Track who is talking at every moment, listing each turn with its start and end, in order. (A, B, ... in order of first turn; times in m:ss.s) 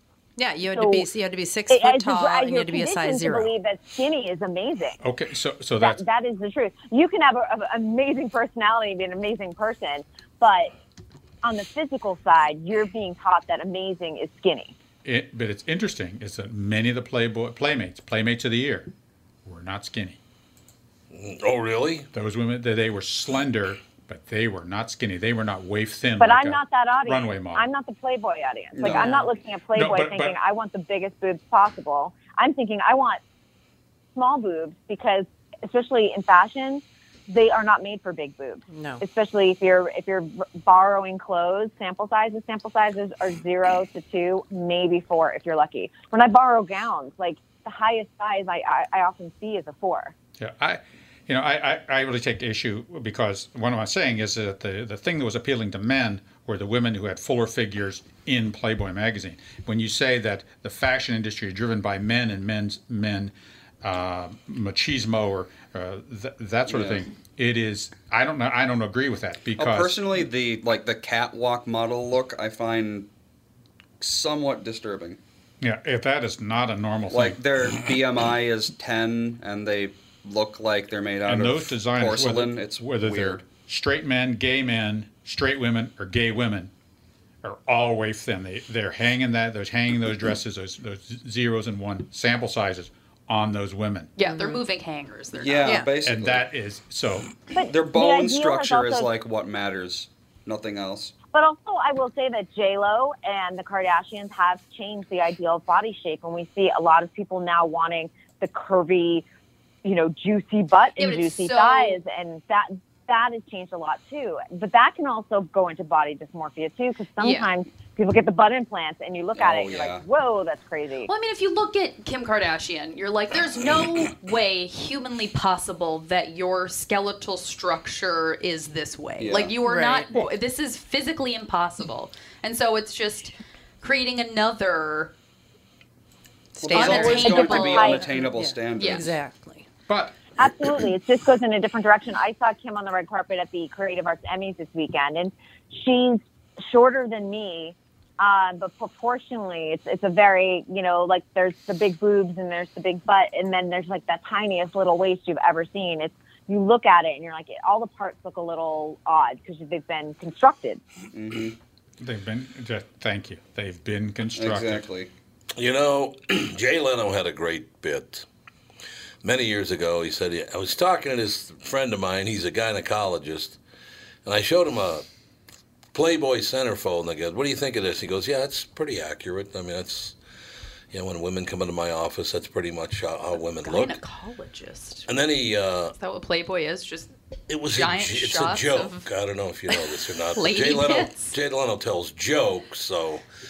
0:00.4-0:03.5 A
0:00.7-0:01.1 B
0:01.7-0:05.0 B
0:05.0-0:06.0 C
0:05.8-0:10.7 B
0:11.4-0:14.7 B
0:15.0-0:18.9 C
0:19.4-0:20.2 C
0:21.1-0:22.1 D
0:22.1-0:27.6 C
0:26.2-0:33.2 B
0:28.7-0:29.2 E
0:29.0-0:29.2 A
0:29.7-0:30.4 C
0:34.1-0:50.1 B
0:38.7-0:39.0 A
0:50.4-1:10.1 C
1:06.7-1:07.0 E
1:09.6-1:13.1 E
1:14.0-1:15.2 E
1:15.6-1:17.4 C
1:17.1-1:23.4 E
1:21.2-1:26.7 C
1:27.4-1:34.1 C
1:34.2-1:35.8 F
1:34.2-1:34.6 A
1:35.3-1:36.5 E
1:35.6-1:35.9 A
1:36.0-1:37.4 C
1:37.5-1:39.1 B
1:37.7-1:41.1 E
1:41.3-1:49.2 B
1:49.8-2:01.1 B
1:51.0-1:52.0 F
1:57.2-1:57.5 F
1:59.4-2:00.0 E
2:01.0-2:15.1 F
2:09.2-2:09.6 E
2:09.6-2:10.1 A
2:16.6-2:19.7 A
2:16.6-2:19.1 E
2:16.7-2:18.1 F
2:16.8-2:18.0 B
2:18.8-2:19.1 F
2:19.9-2:20.3 C
2:20.4-2:40.8 B
2:41.1-2:41.6 E
2:42.0-2:44.9 C
2:44.3-2:45.1 E
2:45.6-2:48.2 D
2:49.2-2:53.6 D
2:54.2-2:55.0 D
2:55.9-3:00.1 D
3:00.9-3:04.0 D
3:03.6-3:05.1 F
3:05.1-3:05.9 D
3:06.0-3:07.1 F
3:07.5-3:13.2 D
3:07.7-3:09.1 F
3:09.7-3:11.3 F